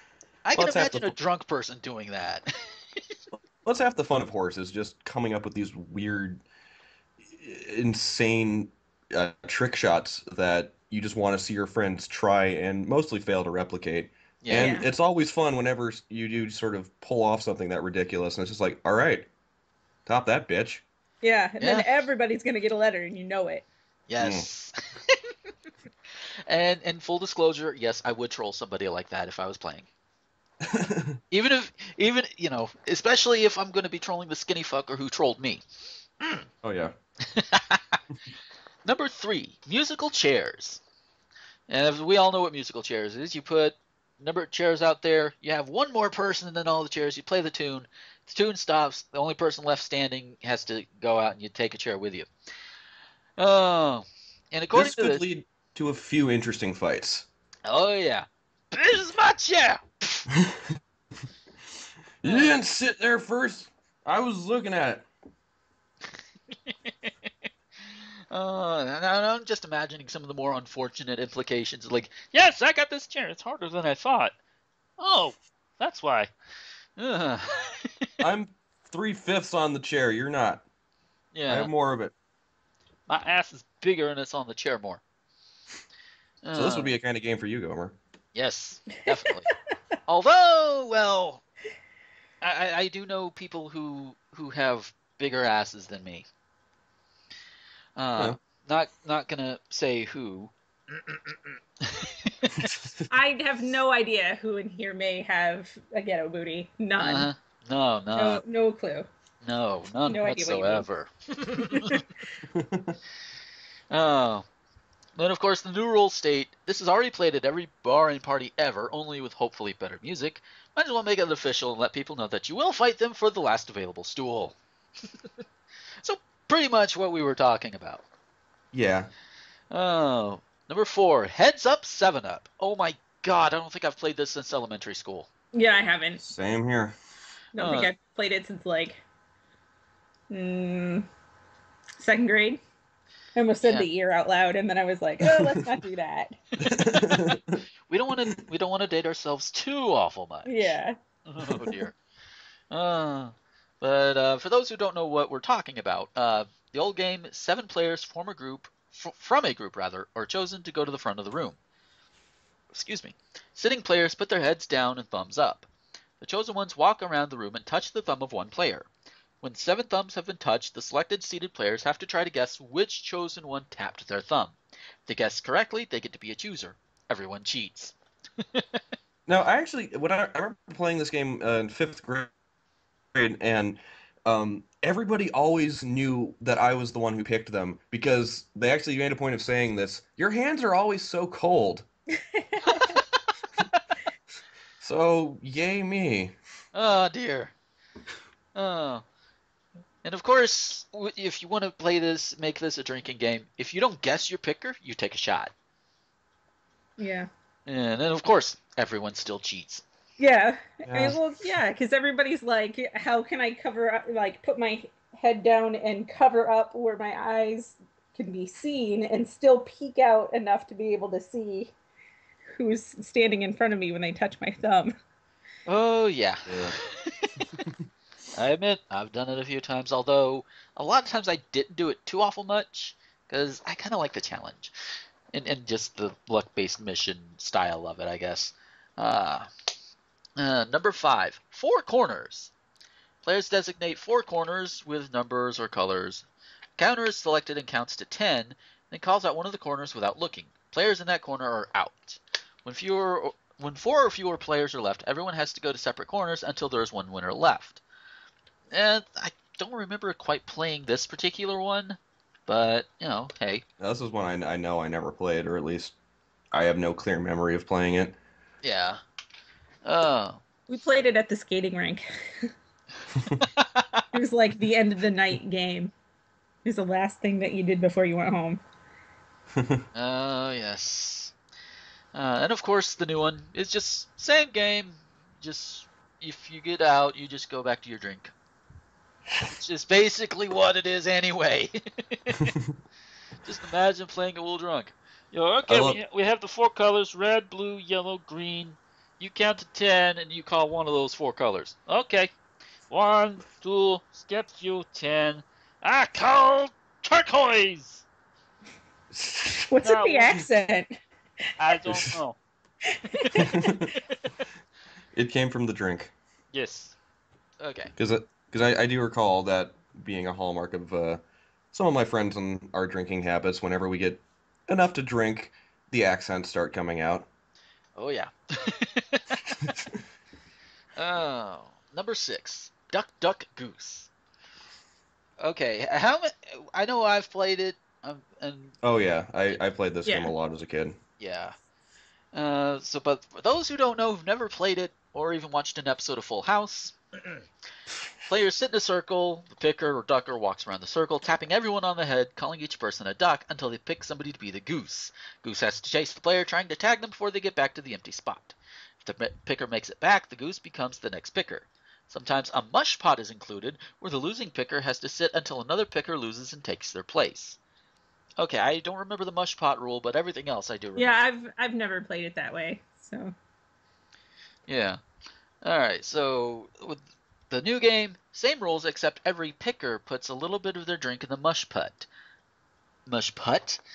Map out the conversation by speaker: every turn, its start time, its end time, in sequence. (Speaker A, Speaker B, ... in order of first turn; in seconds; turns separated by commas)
Speaker A: 0.5-3.0, Speaker B: 0.5-1.2, Speaker B: 3.6-6.4, Speaker B: 7.3-19.3, Speaker A: 14.4-14.8, Speaker C: 14.5-14.8, Speaker B: 20.1-20.8, Speaker C: 21.2-23.6, Speaker A: 21.6-21.9, Speaker A: 24.1-25.3, Speaker B: 24.2-24.5, Speaker A: 26.5-29.9, Speaker B: 30.6-31.2, Speaker A: 31.3-35.6, Speaker B: 36.6-36.9, Speaker A: 37.2-38.0, Speaker A: 38.9-40.8, Speaker A: 41.7-52.3, Speaker A: 53.4-55.2, Speaker B: 54.7-57.3, Speaker A: 57.7-60.3, Speaker B: 62.2-65.1, Speaker A: 62.2-62.6, Speaker A: 66.7-67.3, Speaker A: 67.8-74.3, Speaker A: 75.0-76.3, Speaker A: 77.0-78.1, Speaker B: 78.2-80.6, Speaker A: 81.3-81.7, Speaker B: 81.5-82.1, Speaker A: 83.1-85.0, Speaker A: 86.4-86.9, Speaker B: 86.5-88.0, Speaker A: 88.3-89.5, Speaker A: 90.1-91.4, Speaker A: 92.4-96.3, Speaker A: 98.0-102.7, Speaker B: 102.6-103.1, Speaker C: 103.1-107.3, Speaker A: 107.0-108.4, Speaker C: 108.2-109.1, Speaker A: 109.4-112.0, Speaker C: 110.1-110.9, Speaker B: 112.5-113.0, Speaker A: 113.9-114.5, Speaker A: 115.2-125.3, Speaker A: 126.0-128.1, Speaker B: 128.7-129.1, Speaker A: 129.7-135.3, Speaker C: 135.5-136.2, Speaker B: 136.2-136.9, Speaker A: 137.6-137.9, Speaker C: 137.6-139.0, Speaker C: 140.3-141.1, Speaker C: 142.0-142.6, Speaker C: 143.3-146.4, Speaker A: 146.6-152.0, Speaker B: 146.7-147.5, Speaker C: 150.5-150.9, Speaker A: 152.7-161.6, Speaker A: 162.7-165.7, Speaker A: 166.2-168.9, Speaker A: 169.4-177.9, Speaker A: 178.5-178.8, Speaker B: 179.3-182.3, Speaker B: 183.1-191.9, Speaker C: 192.3-193.0, Speaker A: 192.6-193.8, Speaker B: 194.8-196.3, Speaker A: 196.7-197.5, Speaker A: 198.6-199.1, Speaker A: 200.0-205.5, Speaker C: 207.0-207.3, Speaker A: 207.7-209.8, Speaker C: 210.2-221.7, Speaker B: 210.9-211.2, Speaker C: 222.6-224.9, Speaker A: 225.7-227.4, Speaker B: 226.5-226.8, Speaker A: 228.3-234.7, Speaker A: 235.3-239.5, Speaker A: 240.4-242.5, Speaker A: 243.2-246.2, Speaker A: 246.8-257.8, Speaker A: 258.7-263.6, Speaker B: 263.8-265.9, Speaker B: 266.5-268.2, Speaker A: 268.6-269.0, Speaker A: 269.8-270.4, Speaker C: 270.7-272.5, Speaker A: 273.5-274.0, Speaker C: 274.1-275.9, Speaker C: 276.6-278.6, Speaker B: 279.6-279.8, Speaker A: 279.9-281.3, Speaker A: 282.1-288.3, Speaker A: 289.5-292.6, Speaker A: 293.4-302.3, Speaker B: 295.7-296.0, Speaker A: 302.9-308.1, Speaker B: 309.1-309.7, Speaker C: 309.7-310.9, Speaker A: 309.8-310.4, Speaker A: 311.6-312.4, Speaker C: 312.9-313.8, Speaker B: 313.4-313.9, Speaker A: 314.0-314.3, Speaker B: 315.1-316.1, Speaker A: 316.5-316.9, Speaker A: 317.6-317.9, Speaker B: 318.0-327.3, Speaker A: 328.0-329.3, Speaker A: 331.0-334.1, Speaker A: 335.4-338.8, Speaker B: 338.8-341.0, Speaker C: 340.1-340.3, Speaker A: 341.2-341.6, Speaker A: 342.3-347.0, Speaker A: 348.3-367.6, Speaker A: 368.4-371.2, Speaker C: 371.0-373.3, Speaker A: 374.7-375.0, Speaker A: 375.6-382.1, Speaker A: 383.1-383.8